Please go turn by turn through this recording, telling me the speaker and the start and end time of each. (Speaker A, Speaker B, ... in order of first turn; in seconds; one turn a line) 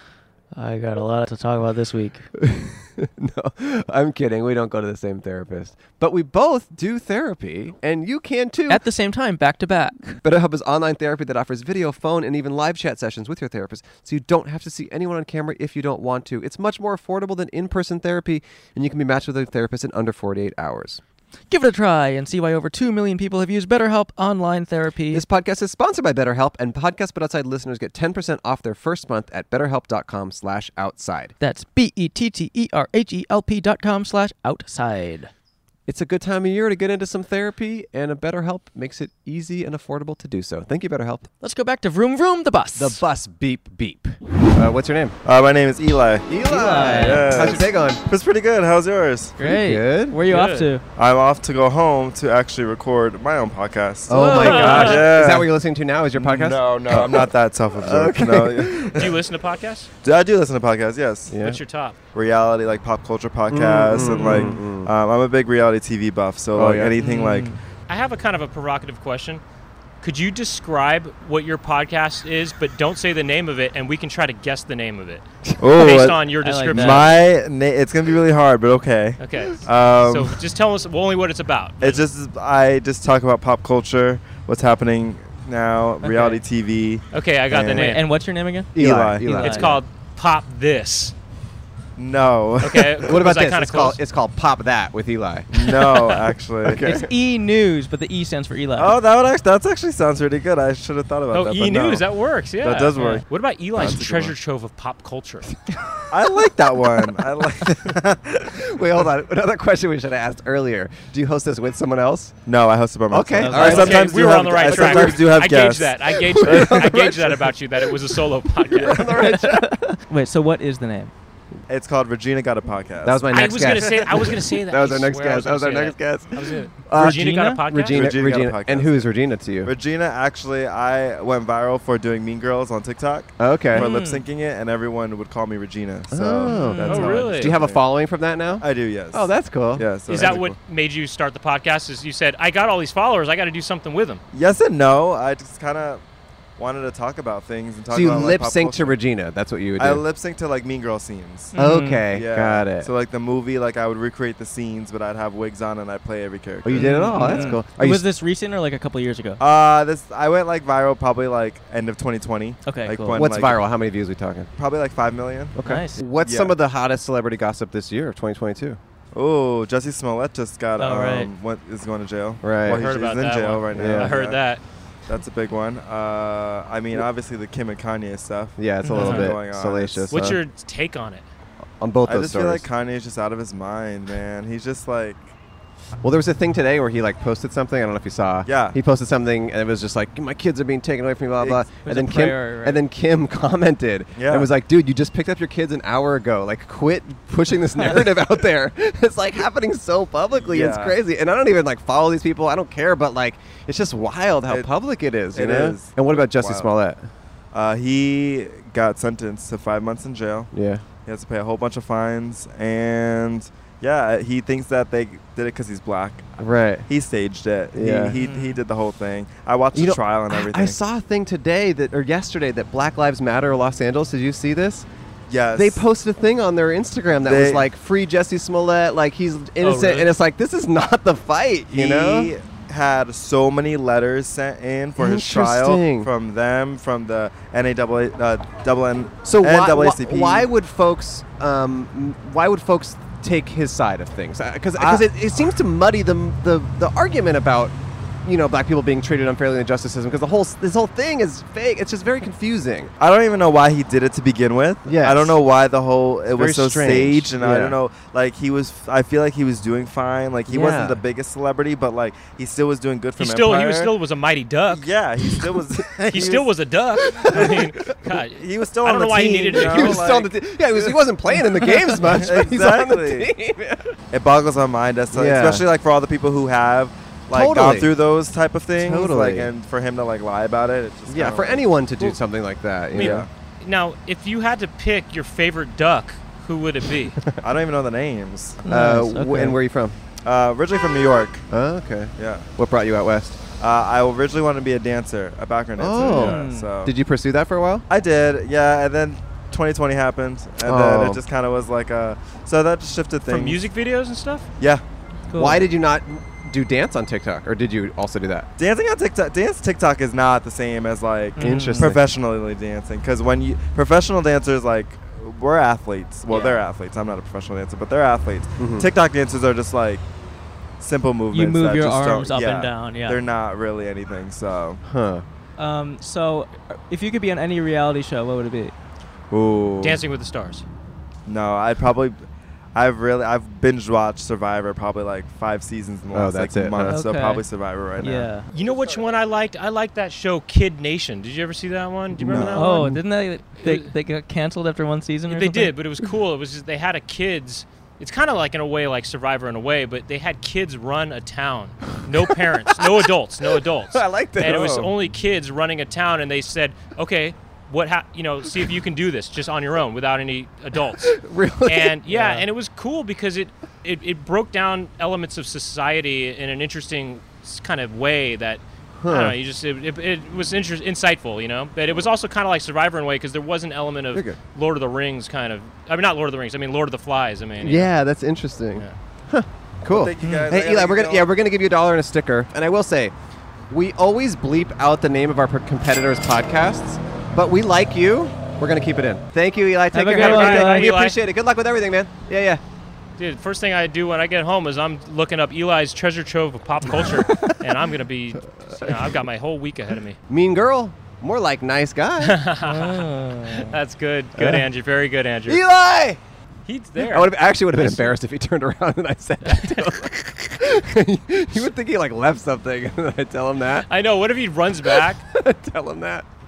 Speaker A: 0.6-2.2
Speaker B: 2.4-8.8
Speaker A: 8.7-10.2
Speaker B: 10.2-21.0
Speaker A: 21.5-25.2
Speaker B: 25.1-31.3
Speaker A: 31.4-35.3
Speaker B: 35.9-41.3
Speaker A: 41.4-43.0
Speaker B: 42.8-45.2
Speaker C: 45.2-49.4
Speaker B: 46.3-48.0
Speaker A: 46.5-47.5
Speaker A: 49.4-50.8
Speaker B: 49.4-50.2
Speaker D: 50.3-50.7
Speaker C: 51.0-55.5
Speaker B: 54.1-59.1
Speaker A: 54.1-54.9
Speaker D: 54.4-55.1
Speaker C: 56.1-59.2
Speaker D: 59.0-59.9
Speaker C: 60.0-61.3
Speaker B: 61.3-61.6
Speaker D: 61.3-62.0
Speaker C: 62.1-67.5
Speaker B: 63.5-64.9
Speaker B: 66.5-67.0
Speaker A: 67.0-67.6
Speaker D: 67.9-69.4
Speaker D: 70.0-75.2
Speaker C: 75.6-80.4
Speaker D: 75.8-77.2
Speaker A: 76.4-77.0
Speaker D: 79.2-82.1
Speaker C: 81.8-87.9
Speaker A: 86.0-86.4
Speaker D: 86.1-86.3
Speaker D: 87.1-88.0
Speaker A: 87.8-89.7
Speaker B: 88.8-89.8
Speaker C: 88.8-89.8
Speaker D: 89.4-91.1
Speaker C: 92.0-93.2
Speaker D: 92.6-94.0
Speaker B: 93.0-95.8
Speaker C: 95.5-97.1
Speaker B: 96.6-97.1
Speaker A: 96.8-99.0
Speaker C: 98.8-102.0
Speaker D: 101.3-105.5
Speaker C: 102.6-104.4
Speaker C: 106.1-108.5
Speaker B: 108.5-112.4
Speaker C: 112.5-117.1
Speaker B: 113.1-115.3
Speaker A: 113.4-114.0
Speaker D: 113.5-119.1
Speaker B: 116.2-119.8
Speaker A: 119.0-121.1
Speaker C: 121.7-123.6
Speaker B: 123.0-129.7
Speaker D: 123.3-128.1
Speaker A: 127.0-127.6
Speaker C: 127.9-129.1
Speaker C: 129.6-137.8
Speaker B: 133.4-133.9
Speaker A: 133.8-134.2
Speaker B: 136.1-140.3
Speaker A: 136.5-136.9
Speaker D: 136.9-137.6
Speaker C: 138.6-140.6
Speaker D: 140.1-144.2
Speaker C: 144.3-146.0
Speaker C: 146.6-149.0
Speaker B: 147.9-150.0
Speaker C: 149.8-151.6
Speaker A: 151.5-152.0
Speaker B: 151.6-152.9
Speaker C: 152.1-157.6
Speaker B: 156.6-158.0
Speaker A: 156.7-159.4
Speaker C: 159.4-163.7
Speaker A: 162.7-163.3
Speaker B: 163.1-164.5
Speaker C: 164.6-165.6
Speaker B: 165.6-168.8
Speaker A: 165.6-166.0
Speaker C: 166.2-166.5
Speaker C: 169.1-174.4
Speaker A: 170.8-171.3
Speaker B: 172.4-172.9
Speaker D: 172.8-174.6
Speaker B: 173.8-174.2
Speaker C: 175.1-180.1
Speaker B: 178.6-180.4
Speaker A: 178.8-179.3
Speaker D: 180.1-181.2
Speaker B: 181.8-182.7
Speaker C: 182.1-185.3
Speaker B: 186.0-207.1
Speaker C: 188.5-188.8
Speaker A: 191.8-192.8
Speaker C: 194.2-194.5
Speaker C: 200.4-201.0
Speaker C: 205.3-206.7
Speaker C: 207.5-210.5
Speaker B: 210.5-210.8
Speaker C: 211.1-220.8
Speaker B: 216.4-216.9
Speaker B: 217.7-218.2
Speaker A: 218.2-218.6
Speaker B: 219.7-224.9
Speaker C: 225.3-225.8
Speaker B: 225.5-232.3
Speaker C: 227.2-227.7
Speaker D: 229.6-230.1
Speaker C: 231.7-240.5
Speaker B: 235.0-236.1
Speaker B: 239.2-252.9
Speaker C: 244.8-245.1
Speaker C: 253.0-263.9
Speaker B: 254.8-255.3
Speaker B: 256.3-257.8
Speaker B: 260.5-261.0
Speaker D: 263.2-264.9
Speaker C: 264.7-266.5
Speaker D: 266.1-270.1
Speaker B: 267.2-267.7
Speaker C: 267.2-271.0
Speaker B: 269.5-273.9
Speaker C: 271.7-273.3
Speaker C: 274.1-282.1
Speaker B: 275.1-275.7
Speaker B: 277.3-278.0
Speaker B: 278.8-279.5
Speaker B: 281.1-283.3
Speaker C: 282.9-283.3
Speaker D: 282.9-287.2
Speaker C: 287.4-288.6
Speaker A: 288.6-289.6
Speaker B: 288.6-290.0
Speaker C: 290.2-291.4
Speaker B: 291.5-293.4
Speaker C: 292.2-292.5
Speaker C: 293.6-296.9
Speaker B: 295.8-297.9
Speaker A: 296.0-296.7
Speaker C: 297.9-303.6
Speaker B: 300.6-301.2
Speaker D: 303.3-304.5
Speaker A: 305.3-305.6
Speaker B: 305.4-308.5
Speaker C: 308.6-320.0
Speaker A: 311.4-311.9
Speaker B: 311.4-312.0
Speaker B: 318.6-318.9
Speaker C: 320.8-324.8
Speaker A: 321.3-323.2
Speaker B: 324.8-325.2
Speaker A: 325.6-328.7
Speaker C: 329.3-330.0
Speaker D: 329.8-330.6
Speaker C: 331.3-338.3
Speaker B: 336.1-337.0
Speaker A: 336.8-337.4
Speaker A: 338.0-338.5
Speaker D: 338.5-342.9
Speaker C: 342.2-343.0
Speaker A: 342.5-345.7
Speaker D: 343.6-343.9
Speaker D: 345.3-377.9
Speaker B: 352.1-354.9
Speaker C: 354.4-354.8
Speaker B: 360.9-362.4
Speaker B: 369.0-369.4
Speaker B: 374.1-374.4
Speaker B: 377.6-383.1
Speaker C: 379.9-381.3
Speaker A: 380.2-380.5
Speaker B: 383.7-392.6
Speaker A: 389.9-390.9
Speaker D: 390.1-391.2
Speaker D: 393.2-400.2
Speaker B: 397.0-397.6
Speaker B: 398.7-399.1
Speaker B: 400.3-402.4
Speaker D: 402.2-405.6
Speaker A: 402.6-403.7
Speaker B: 404.4-404.7
Speaker B: 405.5-406.2
Speaker D: 406.7-408.2
Speaker B: 407.0-413.9
Speaker D: 409.5-410.4
Speaker D: 413.9-415.2
Speaker B: 414.9-416.3